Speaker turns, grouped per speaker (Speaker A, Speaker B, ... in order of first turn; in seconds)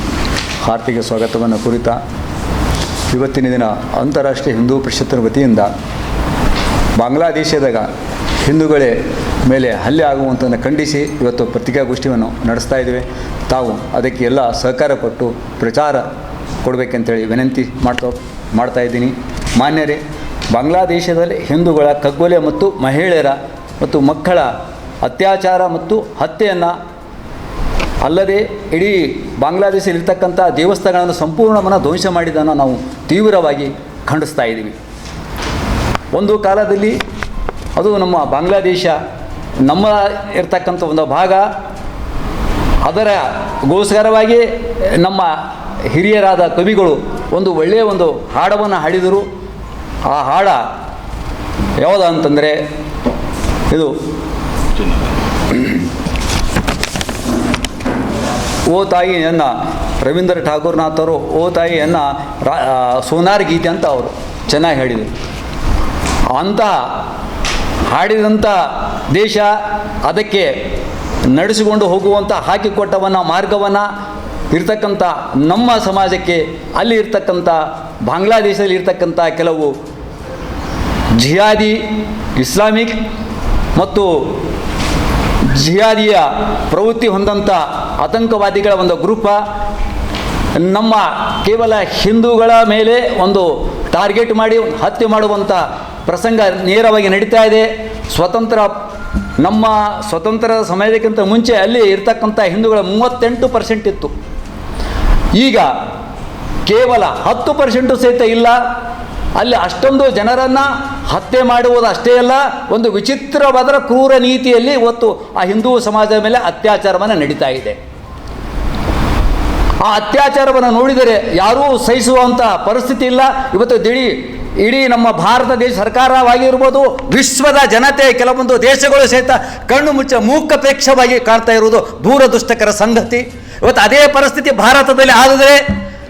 Speaker A: 0.6-2.0, 3.1-5.7, 7.0-7.9, 8.4-16.0, 16.6-20.0, 20.5-24.5, 25.0-26.7, 28.0-34.8, 36.1-37.0, 37.8-39.0, 39.6-41.5, 42.8-45.4, 45.9-49.2, 50.1-50.6, 51.8-52.6, 58.7-65.1, 66.3-67.0, 67.9-69.5, 70.0-70.5, 71.3-73.8, 74.5-79.7, 81.2-81.8, 82.4-83.0, 83.8-84.1, 85.4-89.4, 90.6-98.7, 99.4-104.1, 105.3-105.7, 106.7-108.5, 109.4-117.8, 119.8-135.6